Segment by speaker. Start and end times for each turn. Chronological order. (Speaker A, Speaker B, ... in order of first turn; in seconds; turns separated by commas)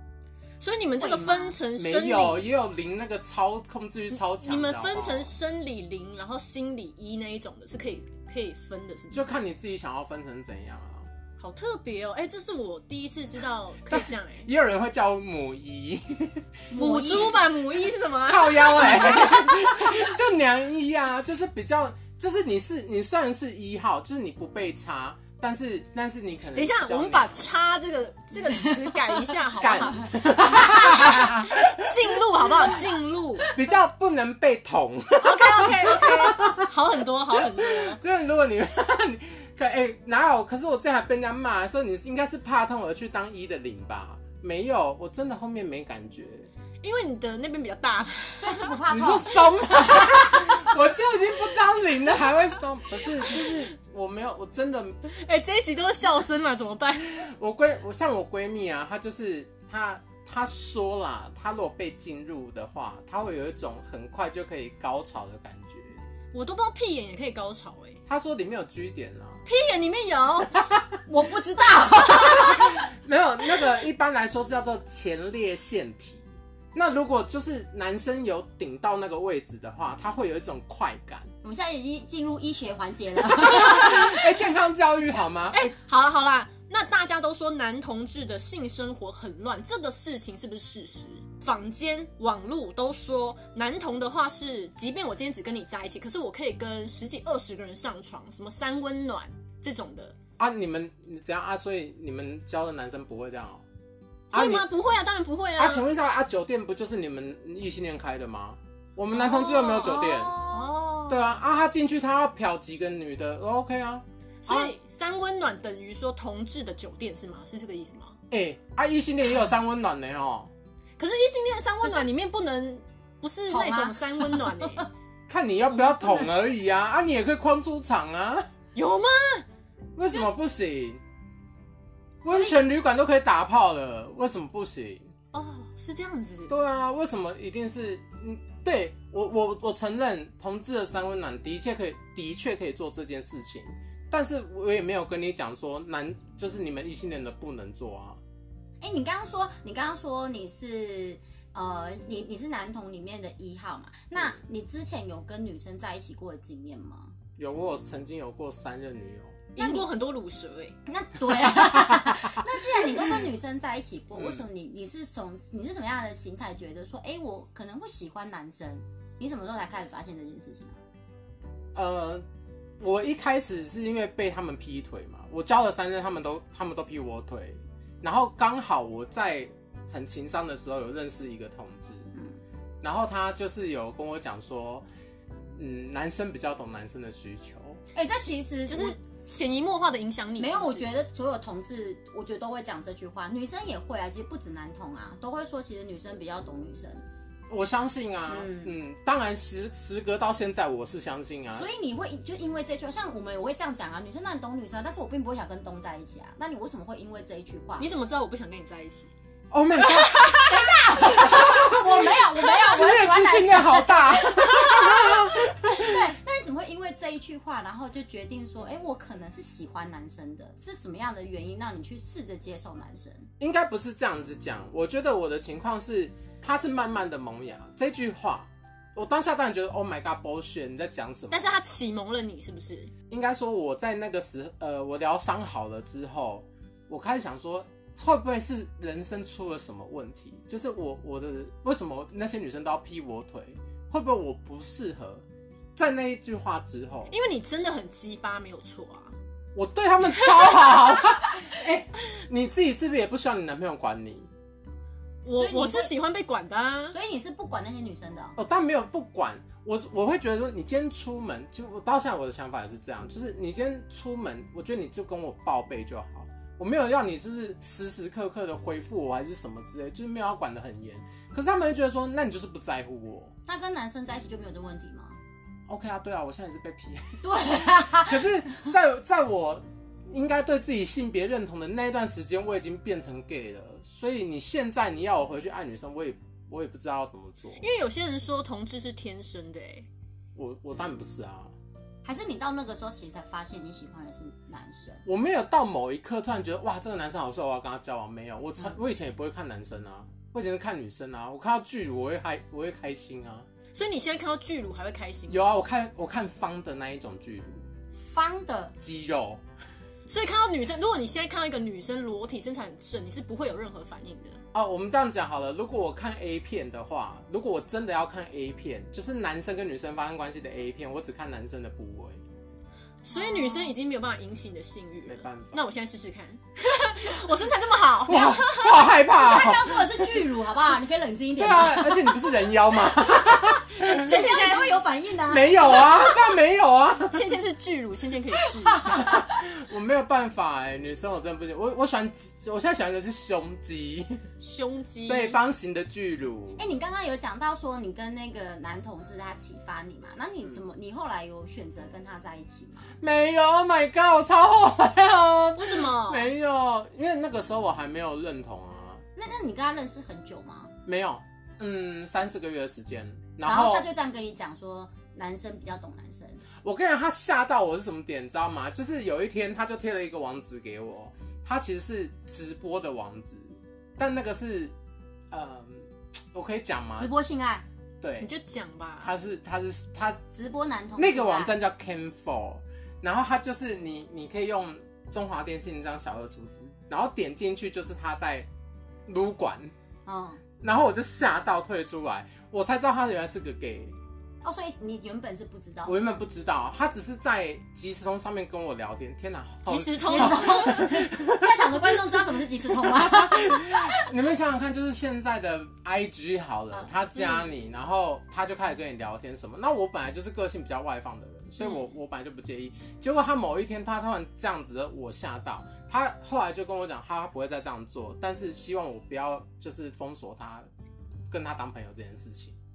Speaker A: 0.6-2.5, Speaker B: 1.0-1.6, Speaker C: 1.7-5.3, Speaker A: 4.1-9.4, Speaker C: 9.1-11.1, Speaker A: 11.4-14.5, Speaker C: 13.9-16.6, Speaker B: 16.7-17.4, Speaker A: 16.7-19.7, Speaker C: 18.2-27.4, Speaker A: 26.5-33.5, Speaker C: 29.6-32.0, Speaker C: 33.4-36.7, Speaker A: 35.2-38.0, Speaker C: 37.3-46.5, Speaker A: 46.8-50.6, Speaker B: 48.4-50.0, Speaker C: 48.9-55.0, Speaker A: 53.1-53.7, Speaker A: 55.0-57.1, Speaker C: 57.0-66.0, Speaker A: 66.3-68.0, Speaker C: 68.1-69.4, Speaker A: 69.5-70.6, Speaker B: 71.0-72.8, Speaker C: 72.2-81.3, Speaker B: 81.4-84.3, Speaker C: 83.3-85.7, Speaker A: 85.5-100.2, Speaker C: 100.4-103.6, Speaker C: 104.3-104.7, Speaker A: 104.3-105.8, Speaker C: 105.6-110.4, Speaker B: 109.1-110.7, Speaker A: 110.5-111.2, Speaker C: 111.1-114.7, Speaker A: 114.4-118.2, Speaker C: 118.3-120.5, Speaker A: 121.0-124.9, Speaker B: 123.5-124.9, Speaker C: 125.3-128.5, Speaker B: 125.7-126.3, Speaker A: 128.7-129.4, Speaker C: 129.9-131.0, Speaker C: 132.2-135.1, Speaker B: 132.2-132.6, Speaker A: 135.3-136.5, Speaker C: 136.5-148.2, Speaker B: 148.8-157.1, Speaker C: 157.4-159.4, Speaker A: 159.5-160.8, Speaker B: 159.6-159.9, Speaker B: 160.9-170.8, Speaker C: 161.8-162.8, Speaker C: 164.1-164.4, Speaker C: 171.7-172.2, Speaker C: 172.8-182.1, Speaker B: 182.1-182.4, Speaker C: 182.8-184.8, Speaker C: 185.6-187.8, Speaker B: 187.9-188.9, Speaker A: 188.2-190.9, Speaker B: 190.4-197.0, Speaker C: 197.5-201.7, Speaker B: 198.2-198.8, Speaker B: 201.5-207.9, Speaker A: 207.8-209.1, Speaker C: 209.5-216.0, Speaker A: 209.8-210.3, Speaker B: 210.3-223.3, Speaker C: 223.4-231.5, Speaker A: 231.3-232.9, Speaker C: 233.1-245.2, Speaker C: 245.8-247.1, Speaker A: 247.1-249.1, Speaker C: 249.5-254.3, Speaker A: 255.2-256.9, Speaker B: 255.3-255.9, Speaker B: 256.9-258.4, Speaker C: 258.4-273.3, Speaker B: 273.4-275.2, Speaker C: 275.7-287.6, Speaker B: 277.2-278.2, Speaker A: 287.6-289.9, Speaker C: 290.4-291.5, Speaker B: 292.0-295.0, Speaker C: 295.0-303.5, Speaker A: 303.7-305.4, Speaker C: 305.3-307.7, Speaker B: 308.0-308.8, Speaker C: 308.8-309.4, Speaker A: 310.1-314.4, Speaker C: 314.5-322.2, Speaker A: 323.0-328.9, Speaker B: 323.1-323.7, Speaker C: 325.1-325.6, Speaker C: 328.0-330.3, Speaker B: 329.0-336.3, Speaker C: 331.4-334.2, Speaker A: 333.8-334.8, Speaker C: 335.3-337.2, Speaker A: 337.1-339.1, Speaker B: 338.6-339.4, Speaker C: 338.9-344.3, Speaker A: 344.4-345.4, Speaker C: 345.1-346.6, Speaker B: 346.6-352.9, Speaker C: 353.0-359.0, Speaker A: 355.6-356.3, Speaker B: 359.1-360.7, Speaker C: 360.9-363.9, Speaker B: 363.4-366.4, Speaker C: 366.6-374.7, Speaker C: 375.3-377.1, Speaker B: 377.0-377.6, Speaker C: 378.0-378.3, Speaker A: 378.2-379.1, Speaker C: 379.0-380.2, Speaker B: 380.3-381.5, Speaker C: 381.0-388.5, Speaker C: 389.1-389.7, Speaker B: 390.1-390.4, Speaker C: 390.6-393.9, Speaker B: 394.4-396.0, Speaker C: 395.8-401.9, Speaker A: 399.6-400.9, Speaker B: 400.0-404.1, Speaker C: 402.7-420.7, Speaker B: 406.7-407.5, Speaker C: 421.3-422.5